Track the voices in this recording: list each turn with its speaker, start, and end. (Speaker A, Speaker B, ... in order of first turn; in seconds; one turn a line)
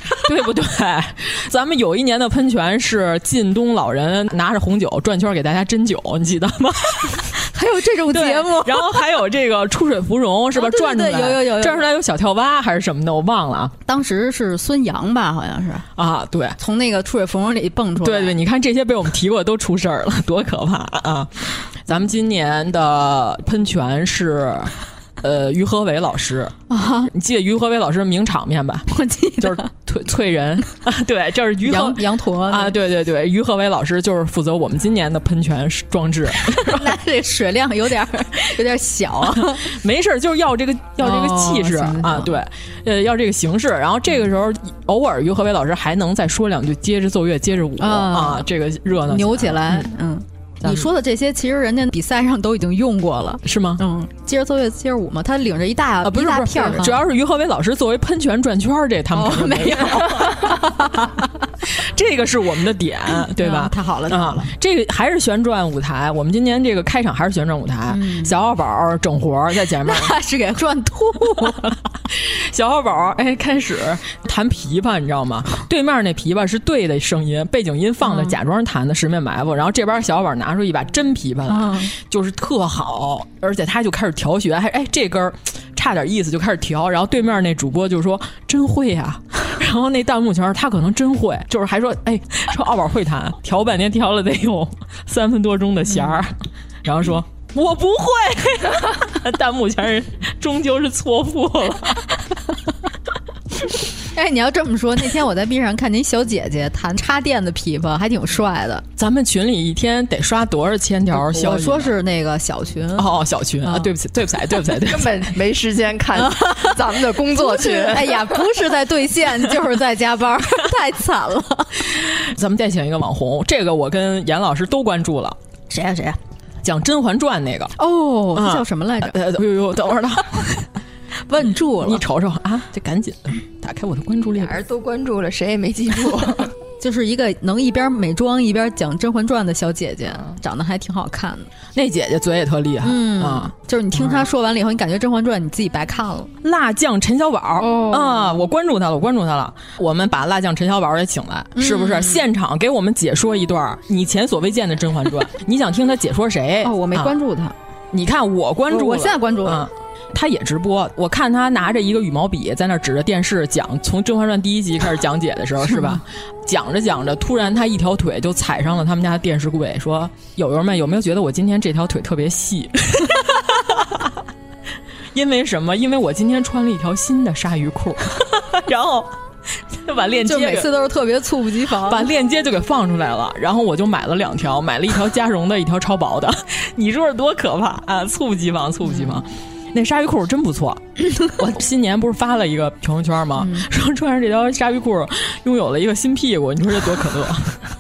Speaker A: 0.2-7.3
Speaker B: 7.4-9.0
Speaker A: 8.1-13.7
Speaker B: 10.5-11.8
Speaker B: 13.9-15.9
Speaker A: 16.0-16.6
Speaker B: 16.6-18.4
Speaker A: 18.0-26.5
Speaker B: 26.7-27.1
Speaker A: 27.1-37.0
Speaker B: 28.9-29.7
Speaker B: 31.6-32.8
Speaker B: 36.6-39.7
Speaker A: 39.2-49.9
Speaker B: 41.0-42.4
Speaker B: 47.8-48.5
Speaker B: 49.1-57.0
Speaker A: 50.6-50.9
Speaker A: 53.4-53.8
Speaker A: 56.0-60.6
Speaker B: 59.1-61.2
Speaker A: 61.7-70.2
Speaker B: 63.4-64.5
Speaker B: 67.9-68.3
Speaker B: 69.8-71.8
Speaker A: 71.4-102.2
Speaker B: 78.1-78.3
Speaker B: 81.5-81.9
Speaker B: 104.1-108.8
Speaker A: 109.0-112.0
Speaker B: 111.1-113.9
Speaker A: 113.0-115.3
Speaker C: 114.8-118.4
Speaker B: 116.2-116.8
Speaker B: 117.3-121.8
Speaker A: 122.0-125.4
Speaker B: 125.7-126.2
Speaker A: 126.6-127.8
Speaker B: 127.8-129.2
Speaker A: 128.3-130.7
Speaker B: 131.3-132.0
Speaker A: 131.7-134.6
Speaker C: 134.4-136.5
Speaker B: 136.8-141.5
Speaker A: 141.8-144.3
Speaker B: 142.8-146.3
Speaker A: 146.4-157.1
Speaker B: 147.6-148.4
Speaker B: 151.6-152.2
Speaker B: 156.6-157.6
Speaker A: 157.9-174.1
Speaker B: 158.7-159.7
Speaker B: 165.6-166.0
Speaker A: 175.1-179.2
Speaker A: 179.7-180.7
Speaker B: 180.2-182.1
Speaker A: 181.8-197.7
Speaker B: 193.4-193.7